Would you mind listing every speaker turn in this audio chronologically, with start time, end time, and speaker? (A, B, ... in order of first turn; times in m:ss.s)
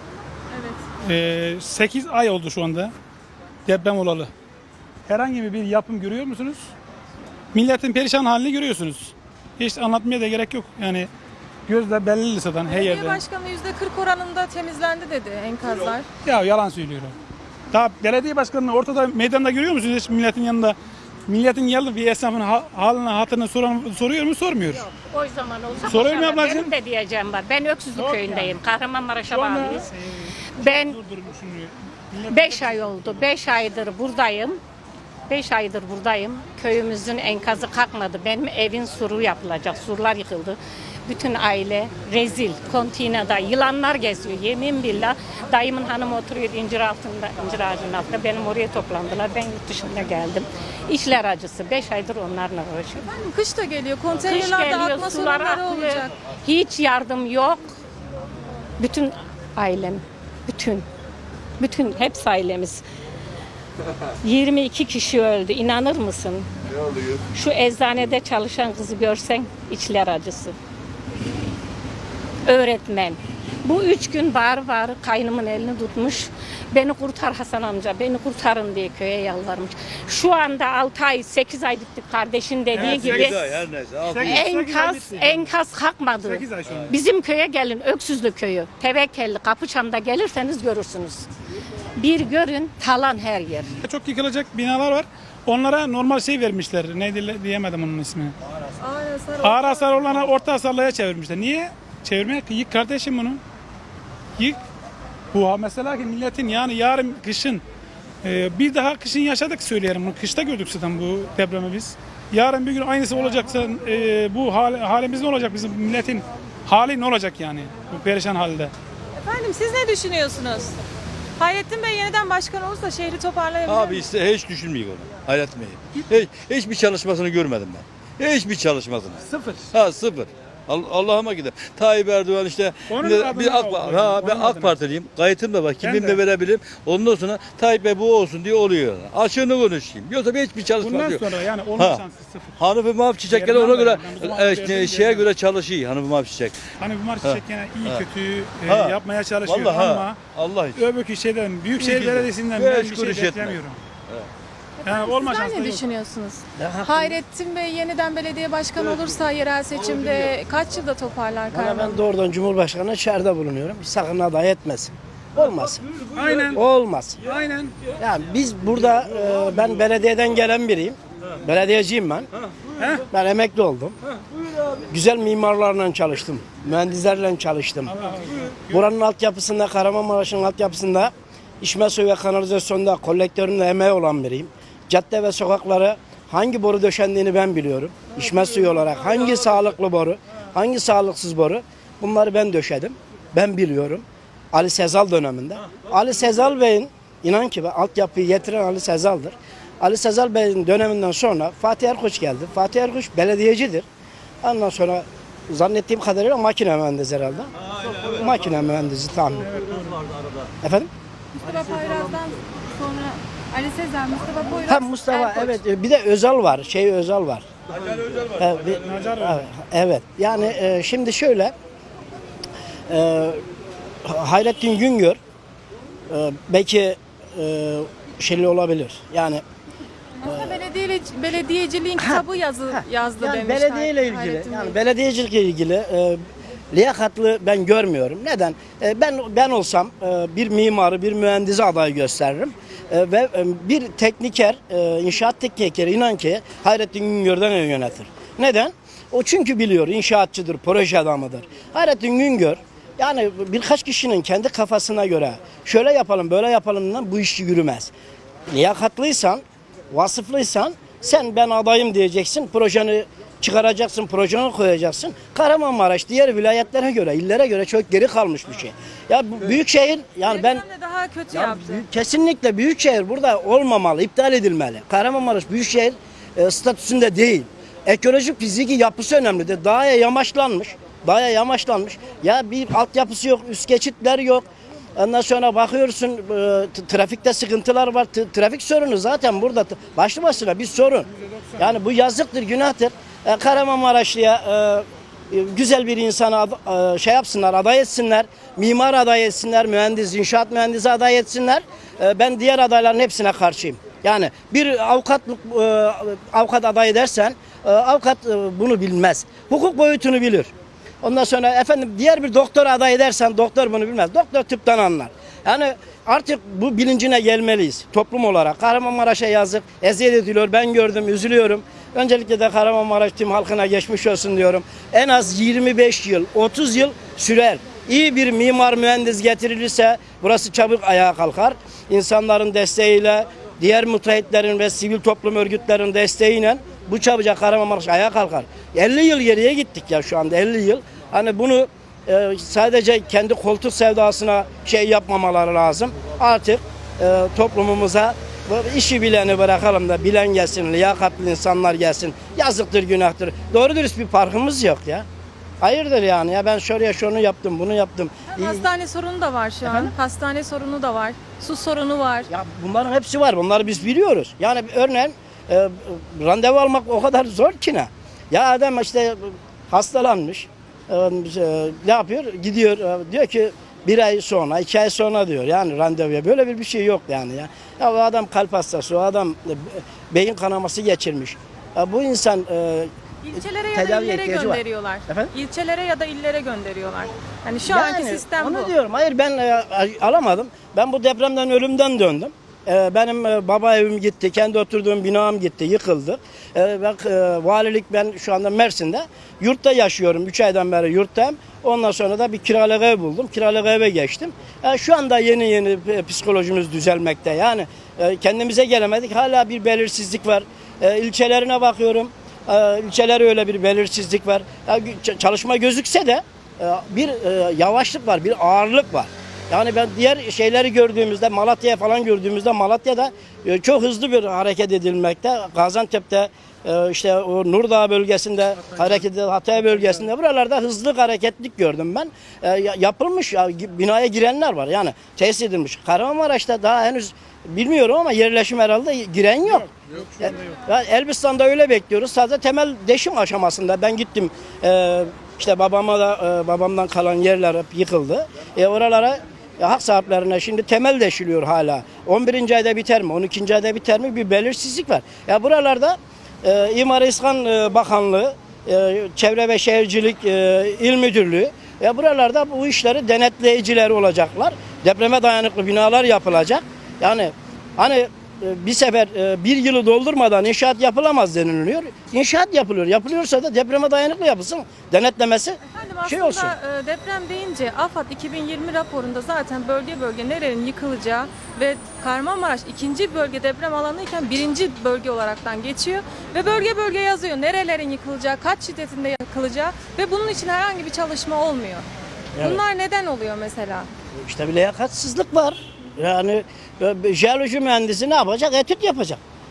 0:00.5-0:00.8 A
0:01.0-0:02.9 B
0:03.7-0:04.3 B
0:05.1-0:06.7 B
0:07.5-0:11.1 B
0:11.7-0:13.2 B
0:12.7-0:16.0 A
0:16.2-0:17.1 B
0:17.7-0:20.8 B
0:21.3-0:24.9 B
0:24.7-0:29.9 C
0:25.8-0:26.7 B
0:28.0-0:28.6 B
0:29.3-0:33.3 B
0:30.6-0:31.0 C
0:32.3-0:34.6 C
0:35.3-0:53.1 C
0:53.0-0:56.1 A
0:54.2-0:57.7 C
0:58.8-1:00.9 C
1:01.6-1:02.8 C
1:04.2-1:06.5 C
1:07.3-1:10.6 C
1:12.4-1:23.6 C
1:22.7-1:23.4 B
1:22.8-1:24.4 D
1:24.1-1:25.5 B
1:24.3-1:31.3 C
1:26.2-1:26.9 B
1:32.0-1:33.8 C
1:33.8-1:38.4 B
1:38.8-1:40.2 A
1:39.4-1:43.4 B
1:45.3-1:47.6 B
1:48.2-1:58.7 B
1:59.2-2:00.8 A
2:01.4-2:04.0 A
2:03.7-2:09.2 D
2:09.3-2:09.7 B
2:09.7-2:21.3 D
2:12.9-2:14.8 B
2:15.8-2:16.2 B
2:20.8-2:22.5 B
2:21.8-2:22.0 D
2:22.6-2:26.6 D
2:23.3-2:25.3 B
2:26.8-2:30.2 B
2:27.2-2:28.1 D
2:28.6-2:30.8 D
2:30.8-2:33.8 B
2:31.8-2:33.6 D
2:34.8-2:42.0 A
2:34.8-2:35.8 B
2:36.6-2:37.2 E
2:41.5-2:45.9 E
2:46.1-2:46.6 B
2:46.5-2:47.2 E
2:47.2-2:47.7 B
2:48.0-2:52.3 E
2:52.8-2:53.0 B
2:53.1-2:54.0 E
2:54.9-2:58.0 E
2:57.9-2:58.8 B
2:58.7-3:23.9 E
3:24.4-3:27.5 E
3:28.1-3:29.5 E
3:29.5-3:30.0 B
3:30.6-3:30.9 E
3:31.4-3:35.6 A
3:34.7-3:37.5 E
3:38.4-3:41.6 E
3:38.8-3:39.4 B
3:42.9-3:43.4 E
3:44.0-3:45.2 E
3:46.1-3:49.4 E
3:50.2-3:54.8 A
3:50.2-3:50.6 E
3:52.0-3:56.2 E
3:56.7-4:17.9 E
4:18.5-4:30.6 E
4:30.2-4:31.8 A
4:31.3-4:44.5 E
4:45.0-5:10.5 E
5:11.0-5:55.1 E
5:55.6-5:58.7 E
5:58.3-6:02.3 A
5:59.6-5:59.9 E
6:02.3-6:22.9 E
6:23.2-6:28.7 A
6:23.7-6:25.3 E
6:27.7-7:56.6 E
7:19.9-7:20.4 B
7:55.7-8:11.8 A
8:12.4-8:13.9 A
8:14.2-8:19.2 E